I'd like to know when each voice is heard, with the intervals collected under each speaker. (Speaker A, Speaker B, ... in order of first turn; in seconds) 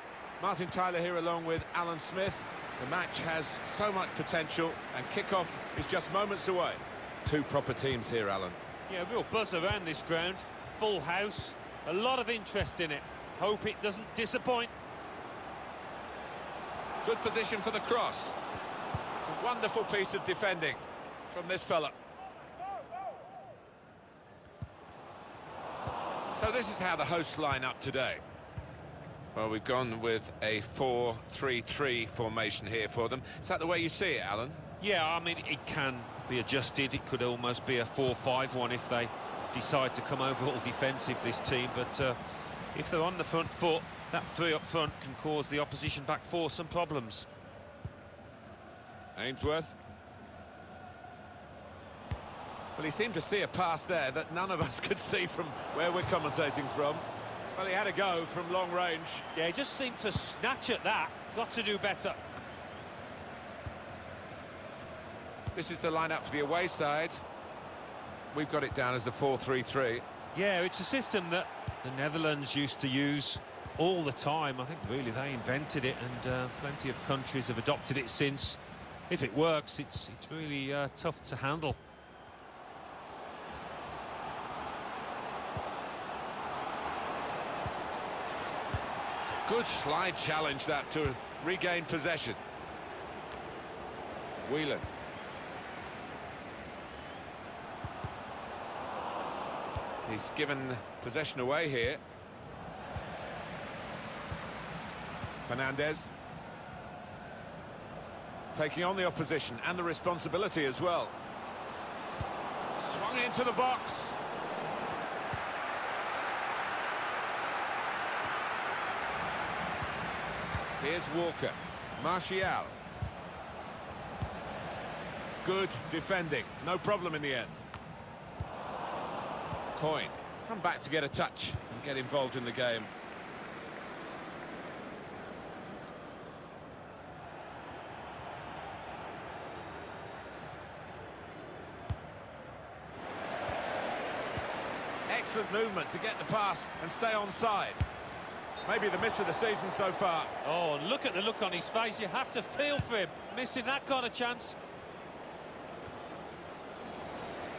Speaker A: 0.4-8.6, 17.0-18.4, 19.2-21.9, 26.3-28.2, 29.3-34.6, 49.1-49.8, 52.7-59.2, 65.5-67.2, 68.3-70.0, 89.3-92.4, 94.4-94.9, 100.0-102.0, 105.5-106.1, 108.5-111.1, 112.8-114.2, 120.8-122.8, 125.4-127.6, 129.7-132.9, 145.1-147.8, 148.6-150.3
Speaker B: 8.9-14.7, 34.8-42.1, 42.7-47.2, 59.3-62.2, 70.3-81.8, 150.4-154.6